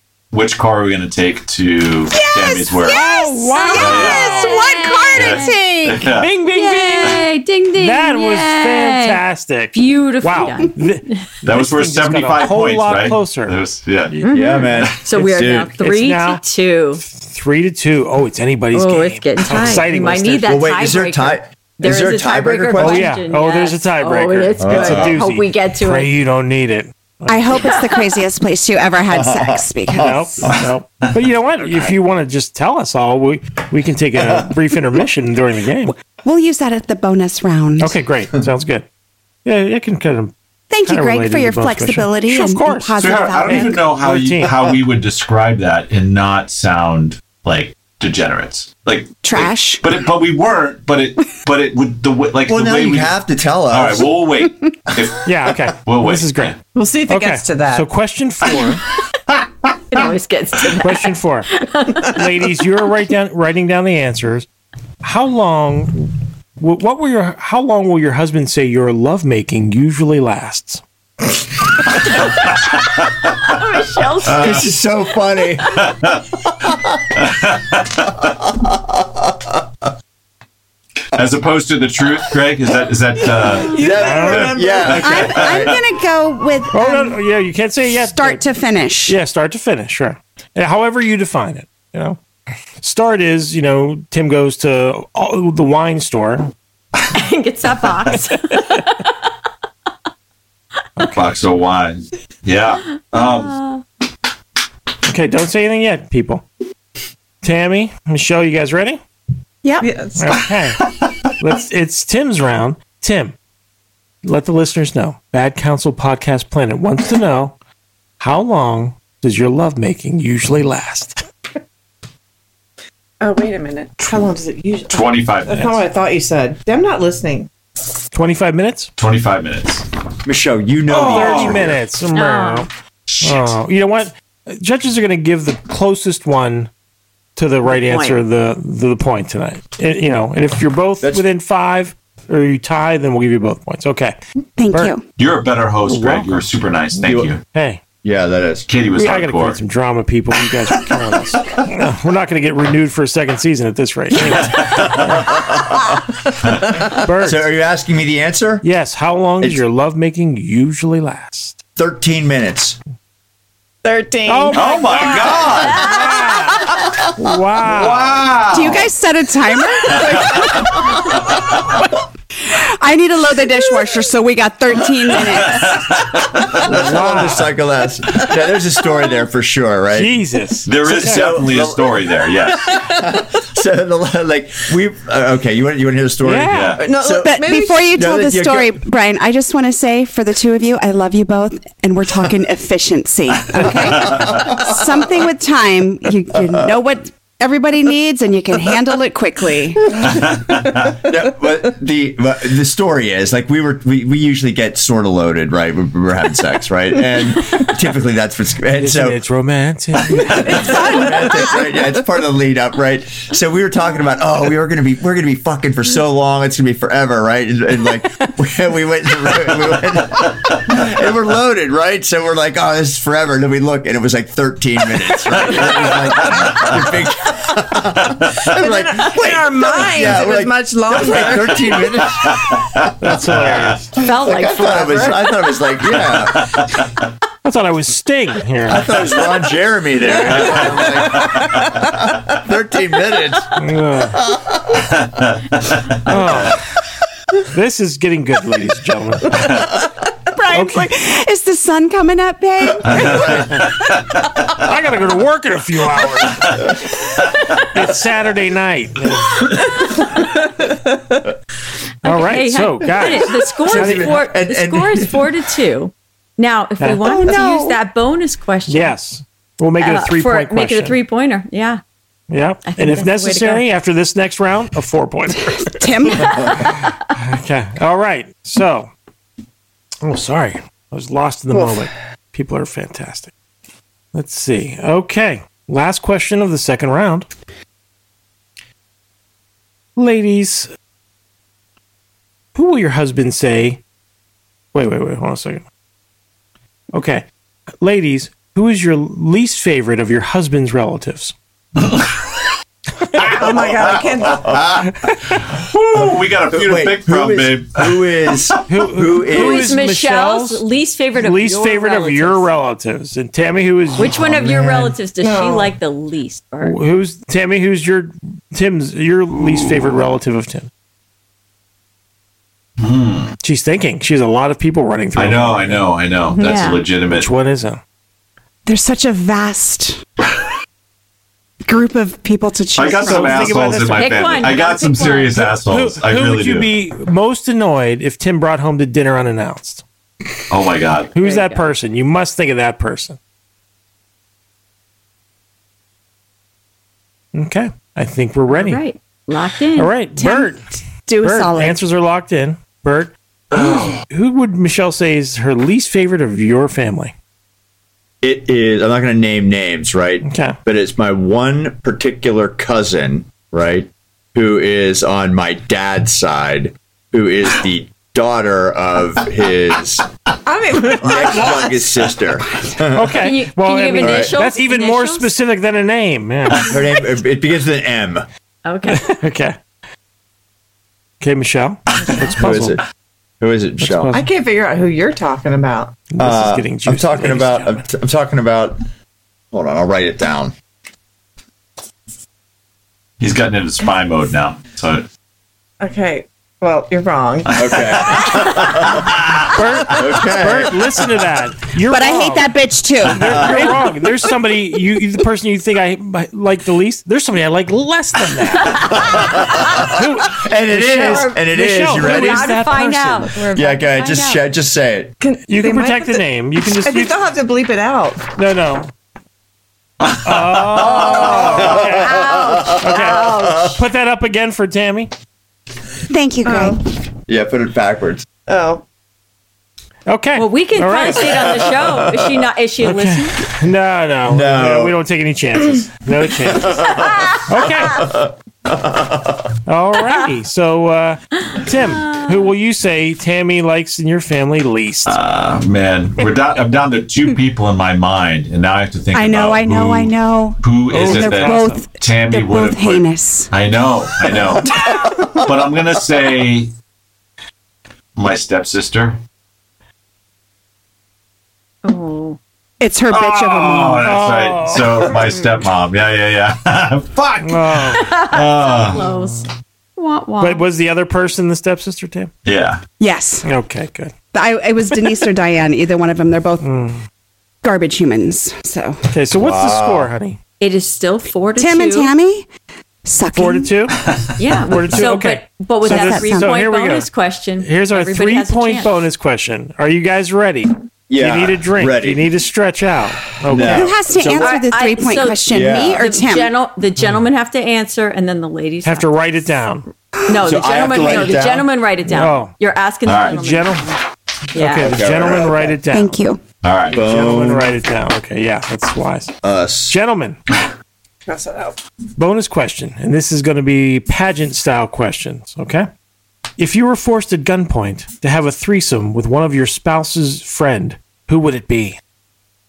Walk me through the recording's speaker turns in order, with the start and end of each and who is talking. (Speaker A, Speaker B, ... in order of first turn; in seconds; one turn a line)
Speaker A: 0.3-3.0
Speaker B: 2.1-6.1
Speaker C: 2.9-4.6
Speaker D: 3.6-5.6
Speaker A: 3.7-4.3
Speaker A: 5.1-6.3
Speaker C: 6.1-7.2
Speaker D: 6.5-9.2
Speaker C: 7.8-14.3
Speaker D: 9.7-11.2
Speaker A: 11.4-14.1
Speaker D: 14.2-17.0
Speaker E: 14.3-15.7
Speaker C: 15.8-16.4
Speaker C: 17.0-20.6
Speaker D: 18.7-26.1
Speaker E: 20.4-23.1
Speaker C: 22.8-27.7
Speaker E: 24.6-25.2
Speaker B: 27.3-30.5
Speaker D: 27.6-28.2
Speaker E: 29.1-30.6
Speaker C: 29.9-35.9
Speaker B: 36.2-37.9
Speaker C: 37.8-38.9
Speaker C: 39.4-40.3
Speaker B: 40.7-43.9
Speaker C: 40.8-44.5
Speaker A: 43.0-53.1
Speaker B: 49.2-49.8
Speaker E: 52.5-54.1
Speaker A: 53.7-55.3
Speaker C: 55.2-56.5
Speaker A: 55.8-56.5
Speaker F: 56.7-57.9
Speaker C: 57.1-58.8
Speaker D: 59.9-62.2
Speaker C: 60.8-61.5
Speaker C: 62.0-64.5
Speaker C: 65.0-70.8
Speaker D: 73.4-74.7
Speaker A: 74.2-74.6
Speaker E: 74.4-75.8
Speaker A: 75.8-76.2
Speaker E: 76.6-77.1
Speaker A: 77.2-78.1
Speaker E: 78.4-79.6
Speaker A: 81.1-85.8
Speaker E: 83.7-85.8
Speaker F: 83.7-84.8
Speaker C: 84.0-84.6
Speaker B: 85.0-87.2
Speaker C: 86.7-88.4
Speaker B: 88.1-89.2
Speaker C: 89.1-92.2
Speaker C: 92.8-96.5
Speaker D: 97.1-99.2
Speaker A: 101.0-103.6
Speaker D: 103.1-103.8
Speaker C: 105.0-106.4
Speaker C: 107.4-109.0
Speaker B: 109.6-109.9
Speaker F: 109.8-110.3
Speaker C: 110.2-110.8
Speaker C: 111.4-113.3
Speaker C: 114.2-117.5
Speaker C: 118.2-121.2
Speaker F: 123.2-127.5
Speaker A: 124.9-125.8
Speaker C: 128.1-128.9
Speaker A: 129.0-129.8
Speaker E: 130.2-131.8
Speaker C: 130.9-132.7
Speaker A: 130.9-131.7
Speaker D: 132.1-132.7
Speaker A: 133.1-133.5
Speaker C: 133.2-136.7
Speaker C: 137.3-144.2
Speaker D: 137.7-138.2
Speaker B: 144.6-145.0
Speaker A: 145.2-147.4
Speaker C: 145.8-146.4
Speaker C: 147.0-147.8
Speaker E: 147.0-147.3
Speaker E: 148.0-148.7
Speaker A: 148.7-149.6
Speaker C: 148.9-155.1
Speaker A: 154.3-155.1
Speaker E: 155.1-155.9
Speaker C: 157.0-157.4
Speaker E: 157.1-158.6
Speaker C: 158.6-161.6
Speaker E: 161.8-162.8
Speaker F: 163.8-165.6
Speaker C: 164.3-168.2
Speaker A: 164.5-166.1
Speaker D: 165.7-166.2
Speaker A: 167.6-168.9
Speaker B: 168.5-171.2
Speaker A: 169.9-170.5
Speaker B: 172.4-176.0
Speaker A: 175.1-176.7
Speaker E: 176.6-180.2
Speaker C: 176.6-177.5
Speaker C: 179.9-181.3
Speaker A: 180.7-182.9
Speaker E: 180.8-188.7
Speaker C: 186.2-186.8
Speaker A: 186.5-186.8
Speaker F: 186.8-187.9
Speaker B: 187.2-200.1
Speaker E: 194.1-194.8
Speaker E: 200.9-209.2
Speaker C: 208.8-210.9
Speaker E: 210.4-232.6
Speaker F: 210.6-211.1
Speaker A: 226.5-226.7
Speaker F: 228.5-231.8
Speaker A: 232.5-232.8
Speaker C: 233.0-233.9
Speaker A: 233.4-233.8
Speaker D: 233.9-235.4
Speaker E: 234.0-236.6
Speaker A: 235.9-236.9
Speaker C: 237.4-238.9
Speaker E: 238.7-243.5
Speaker F: 240.0-241.5
Speaker A: 240.3-241.6
Speaker C: 243.6-244.2
Speaker E: 244.2-244.9
Speaker A: 245.0-245.7
Speaker C: 246.1-246.6
Speaker C: 247.5-249.4
Speaker B: 250.3-253.7
Speaker C: 250.5-250.8
Speaker A: 252.9-253.8
Speaker E: 252.9-253.4
Speaker C: 254.6-256.7
Speaker C: 257.7-259.5
Speaker C: 262.0-264.2
Speaker D: 262.0-268.9
Speaker E: 263.5-265.3
Speaker B: 267.0-267.8
Speaker C: 268.7-271.0
Speaker D: 269.8-271.8
Speaker C: 272.3-275.7
Speaker D: 272.6-273.6
Speaker B: 275.5-276.7
Speaker C: 276.4-278.9
Speaker C: 280.0-283.3
Speaker C: 284.1-287.3
Speaker C: 289.9-290.7
Speaker C: 292.5-293.8
Speaker C: 294.7-295.6
Speaker C: 296.9-297.2
Speaker C: 297.8-301.3
Speaker C: 303.1-303.5
Speaker F: 303.2-304.6
Speaker E: 304.4-304.9
Speaker C: 304.9-305.4
Speaker A: 305.4-308.6
Speaker E: 306.0-309.8
Speaker C: 308.7-314.9
Speaker D: 309.3-312.5
Speaker D: 314.0-316.8
Speaker F: 315.2-315.7
Speaker C: 316.6-320.7
Speaker A: 322.8-323.3
Speaker C: 323.4-325.8
Speaker A: 325.1-327.3
Speaker D: 326.3-326.8
Speaker C: 327.1-327.8
Speaker B: 328.6-330.0
Speaker B: 331.6-333.6
Speaker A: 332.7-336.7
Speaker C: 332.9-334.4
Speaker D: 333.8-335.5
Speaker C: 335.4-339.8
Speaker A: 340.5-341.1
Speaker C: 341.1-343.2
Speaker D: 341.2-341.7
Speaker C: 347.3-348.8
Speaker D: 348.5-349.9
Speaker C: 349.7-350.6
Speaker B: 350.2-351.8
Speaker C: 351.2-357.1
Speaker A: 353.5-354.0
Speaker E: 358.2-370.0
Speaker C: 360.2-360.6
Speaker F: 370.4-371.9
Speaker E: 370.9-373.2
Speaker C: 372.9-376.7
Speaker D: 373.2-375.3
Speaker E: 374.0-374.3
Speaker E: 376.6-378.2
Speaker D: 378.6-379.1
Speaker C: 378.9-379.6
Speaker C: 381.2-382.8
Speaker D: 382.1-382.3
Speaker E: 382.4-382.8
Speaker E: 383.4-384.1
Speaker C: 383.8-384.2
Speaker F: 384.1-386.0
Speaker C: 386.1-387.8
Speaker E: 386.2-388.8
Speaker E: 389.5-390.5
Speaker A: 393.2-395.1
Speaker F: 395.8-397.7
Speaker E: 397.5-399.1
Speaker A: 397.5-399.8
Speaker C: 399.5-402.5
Speaker E: 399.9-401.1
Speaker B: 401.9-403.7
Speaker C: 403.0-413.3
Speaker E: 403.2-403.8
Speaker D: 408.6-409.9
Speaker E: 409.1-412.6
Speaker D: 410.9-414.4
Speaker E: 413.5-415.1
Speaker F: 415.2-418.3
Speaker C: 415.5-417.1
Speaker C: 418.3-418.9
Speaker A: 420.0-421.6
Speaker C: 420.2-422.3
Speaker D: 421.0-423.8
Speaker E: 421.8-423.4
Speaker C: 422.8-425.1
Speaker B: 426.1-426.8
Speaker F: 426.4-426.8
Speaker E: 427.3-428.3
Speaker F: 428.5-428.8
Speaker C: 430.1-431.6
Speaker D: 430.3-433.4
Speaker E: 431.7-432.1
Speaker C: 432.8-436.9
Speaker E: 434.3-435.0
Speaker D: 436.9-437.4
Speaker C: 437.4-438.1
Speaker E: 438.0-439.5
Speaker C: 439.6-445.2
Speaker D: 441.5-442.5
Speaker A: 445.1-456.7
Speaker B: 449.1-453.5
Speaker C: 450.9-451.8
Speaker B: 454.3-455.0
Speaker A: 458.1-459.2
Speaker D: 461.8-462.4
Speaker B: 462.8-464.2
Speaker A: 463.1-469.0
Speaker C: 464.0-465.1
Speaker C: 467.4-468.1
Speaker D: 467.8-470.6
Speaker C: 468.9-469.4
Speaker C: 470.4-472.3
Speaker A: 472.4-472.8
Speaker B: 473.0-473.4
Speaker C: 473.4-474.1
Speaker B: 474.3-476.6
Speaker C: 476.6-477.0
Speaker B: 477.6-479.0
Speaker C: 479.1-480.4
Speaker E: 479.3-480.1
Speaker D: 480.6-482.1
Speaker B: 481.5-482.5
Speaker B: 483.0-483.7
Speaker C: 483.3-484.0
Speaker D: 484.4-489.0
Speaker C: 484.7-487.1
Speaker B: 485.8-486.5
Speaker C: 487.6-494.4
Speaker E: 491.1-492.3
Speaker E: 493.4-494.5
Speaker B: 493.6-496.5
Speaker D: 494.3-499.1
Speaker E: 495.5-496.0
Speaker C: 498.8-499.9
Speaker D: 500.3-504.0
Speaker E: 500.4-501.7
Speaker C: 502.1-502.5
Speaker A: 503.1-503.4
Speaker C: 503.2-503.9
Speaker D: 504.5-505.0
Speaker C: 504.5-506.2
Speaker E: 504.8-505.8
Speaker B: 505.9-506.4
Speaker A: 506.6-507.0
Speaker E: 506.9-507.8
Speaker C: 506.9-509.3
Speaker E: 509.4-509.9
Speaker C: 509.9-510.4
Speaker F: 511.2-511.8
Speaker C: 512.1-515.9
Speaker C: 516.6-522.0